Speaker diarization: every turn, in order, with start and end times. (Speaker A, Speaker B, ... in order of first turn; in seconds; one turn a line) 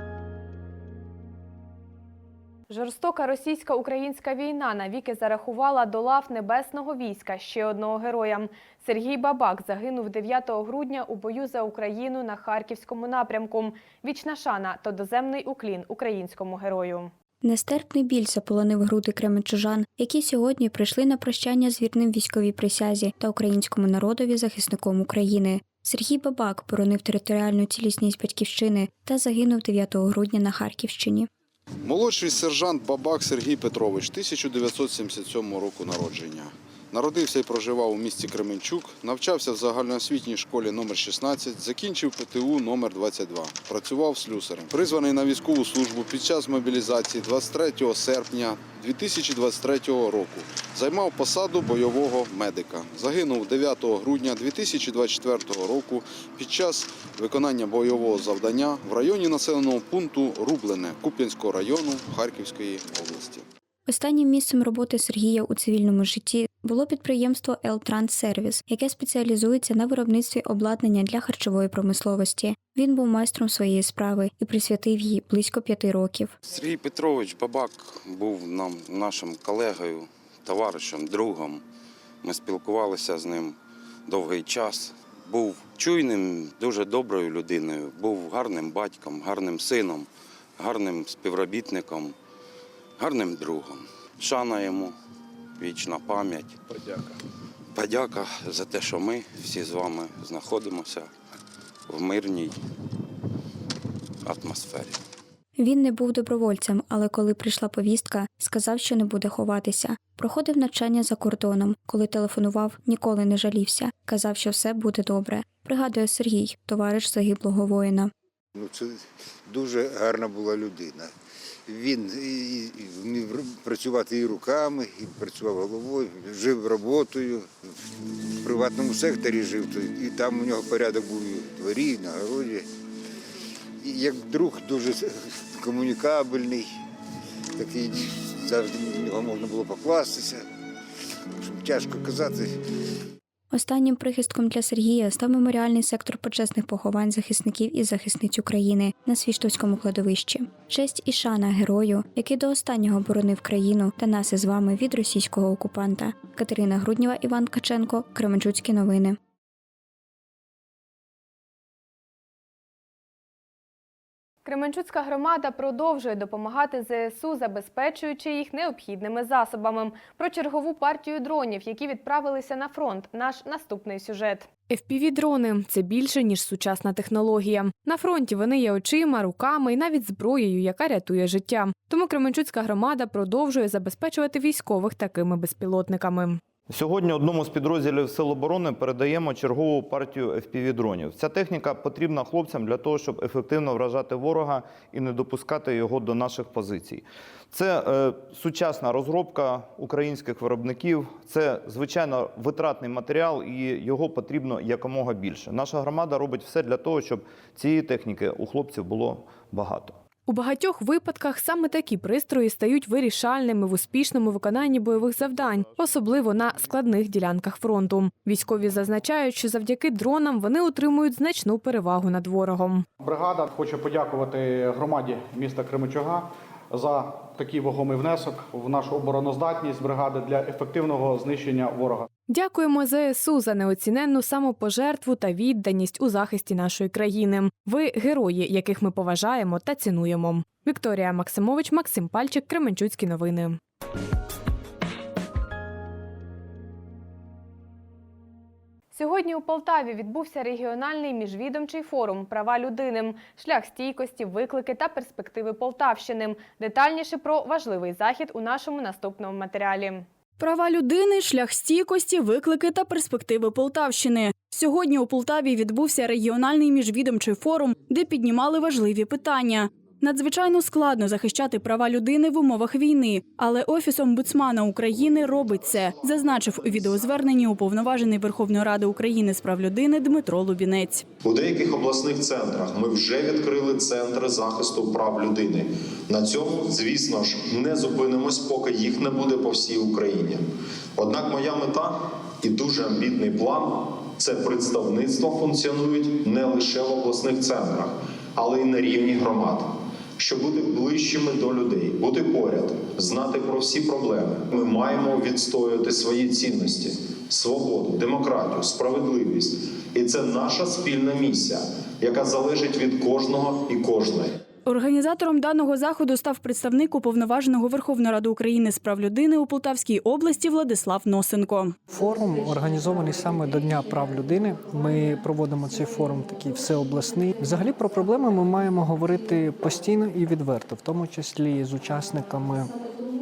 Speaker A: 2.7-17.1
Speaker B: 17.4-31.3
Speaker C: 31.8-63.5
Speaker B: 63.9-76.4
Speaker D: 76.5-81.6
Speaker D: 82.2-83.6
Speaker D: 84.1-92.2
Speaker D: 93.0-95.0
Speaker D: 95.6-96.6
Speaker D: 97.7-101.1
Speaker D: 101.9-102.6
Speaker D: 104.2-105.0
Speaker B: 105.6-118.1
Speaker E: 118.5-121.1
Speaker E: 121.7-132.7
Speaker E: 133.8-136.7
Speaker E: 137.6-140.4
Speaker E: 141.4-142.5
Speaker B: 143.5-159.2
Speaker A: 164.4-186.4
Speaker F: 186.7-210.0
Speaker A: 210.3-222.8
Speaker G: 223.0-232.1
Speaker A: 232.3-243.6
Speaker A: 248.9-260.1
Speaker H: 260.4-281.1
Speaker I: 281.2-290.4
Speaker I: 291.0-314.4
Speaker H: 314.7-321.8
Speaker J: 321.9-332.7